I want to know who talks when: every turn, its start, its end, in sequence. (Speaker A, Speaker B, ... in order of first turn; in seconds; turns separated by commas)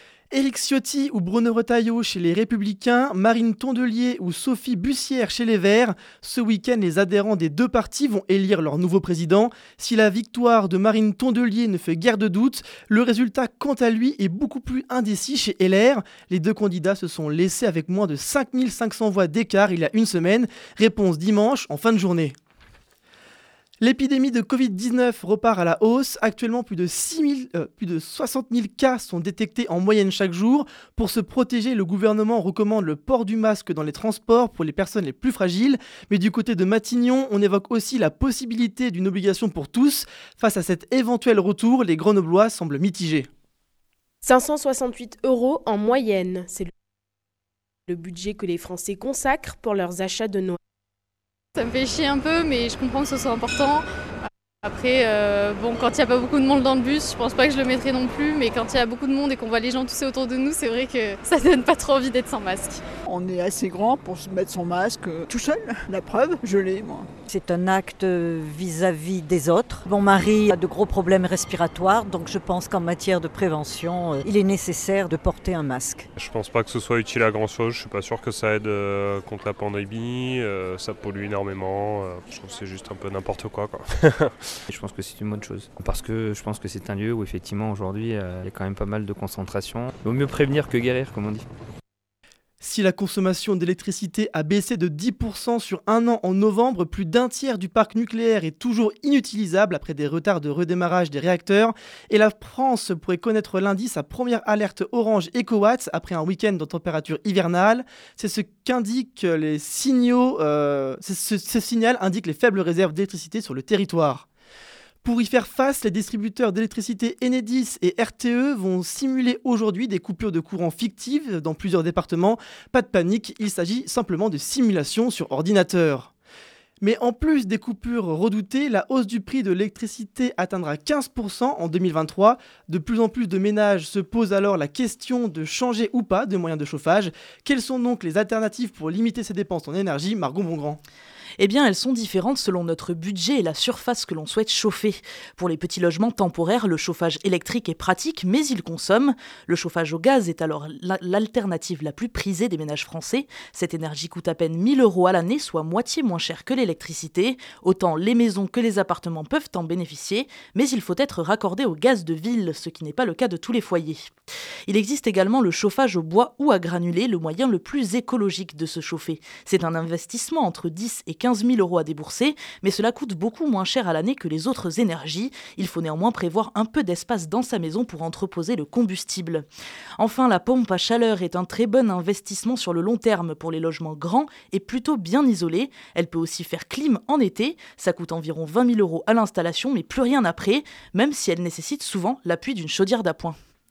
Speaker A: 0.3-22.4, Speaker A: 23.8-43.3, Speaker B: 44.2-46.7, Speaker B: 47.9-50.6, Speaker C: 51.6-53.9, Speaker C: 54.6-62.8, Speaker D: 63.1-67.1, Speaker E: 67.3-76.1, Speaker F: 76.2-84.6, Speaker G: 84.7-91.5, Speaker A: 92.6-114.3, Speaker A: 115.0-126.1, Speaker A: 126.8-140.8, Speaker H: 141.4-164.1, Speaker H: 164.7-179.5, Speaker H: 180.0-193.4